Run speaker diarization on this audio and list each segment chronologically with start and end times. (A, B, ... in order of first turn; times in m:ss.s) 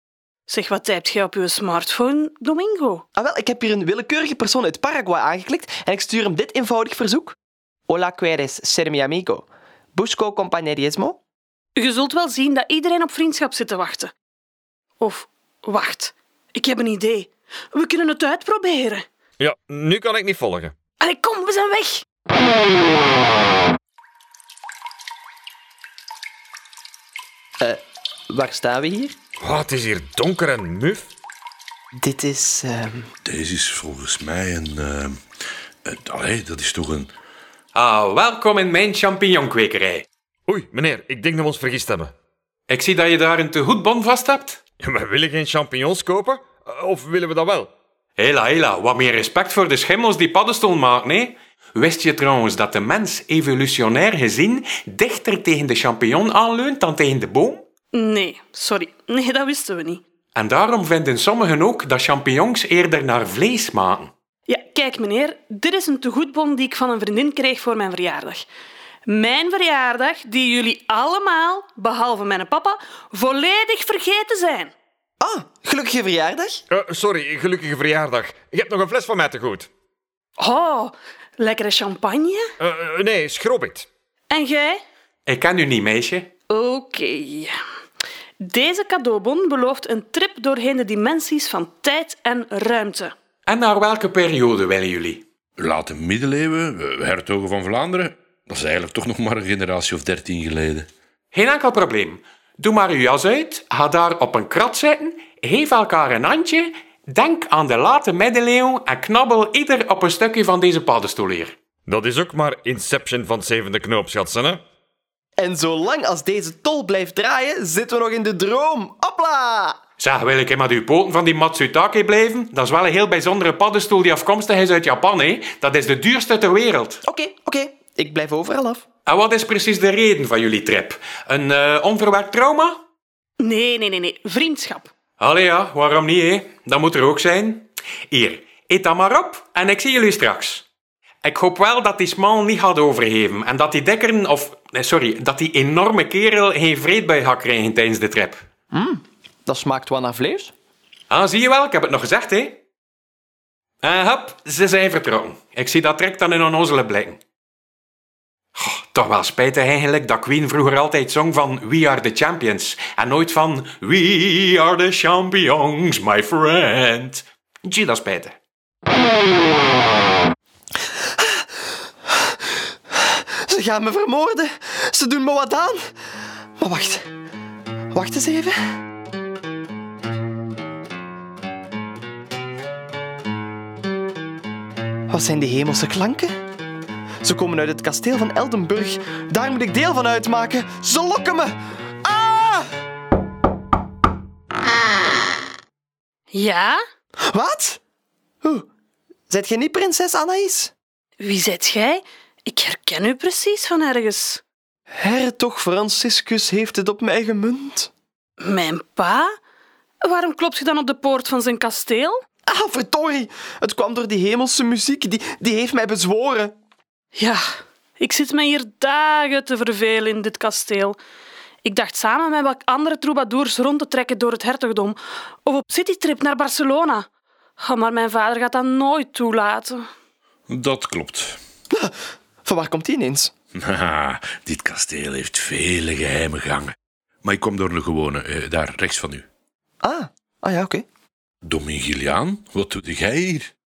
0:00.5-0:03.0 A
0:03.2-0:07.4 B
0:07.9-0:11.2 B
0:11.8-0:14.1 A
0:15.0-0:19.0 A
0:19.4-0:20.7 C
0:21.0-0:22.0 A
0:27.6-0:29.1 B
0:29.4-0:31.1 C
0:31.9-0:33.1 B
0:33.2-0:35.2 D
0:35.8-0:37.1 D
0:37.7-0:40.0 E
0:40.5-0:42.1 C
0:42.7-0:44.6 E
0:44.8-0:47.7 C
0:48.2-0:57.6 E
0:57.9-1:00.0 A
1:00.3-1:04.1 E
1:04.5-1:08.4 A
1:09.0-1:14.7 A
1:15.2-1:16.6 B
1:16.7-1:19.7 C
1:20.4-1:22.4 A
1:22.6-1:23.9 C
1:24.3-1:24.8 A
1:25.3-1:26.3 E
1:26.5-1:27.5 A
1:28.4-1:33.1 A
1:33.5-1:35.2 E
1:35.6-1:40.9 D
1:41.3-1:51.5 E
1:51.9-1:54.6 C
1:55.4-1:59.8 B
2:00.0-2:07.0 E
2:07.0-2:08.8 B
2:09.0-2:12.8 E
2:13.4-2:14.9 A
2:15.2-2:20.6 E
2:21.2-2:28.4 E
2:28.7-2:30.5 B
2:31.1-2:32.6 E
2:33.8-2:37.2 E
2:38.5-2:48.3 E
2:51.2-2:51.5 B
2:52.1-2:55.8 B
2:56.6-2:57.1 B
2:57.9-2:58.6 B
3:05.1-3:06.3 B
3:07.2-3:12.7 B
3:16.3-3:16.8 A
3:17.3-3:17.8 B
3:18.4-3:18.7 B
3:19.3-3:20.7 B
3:21.2-3:24.4 A
3:24.9-3:27.9 B
3:28.4-3:29.3 A
3:30.0-3:32.2 A
3:32.5-3:36.5 B
3:37.2-3:37.4 A
3:38.0-3:41.0 A
3:41.6-3:47.0 A
3:47.6-3:49.8 A
3:50.5-3:51.4 D
3:51.7-3:53.3 B
3:53.5-3:59.2 D
3:59.8-4:00.8 B
4:01.4-4:03.5 D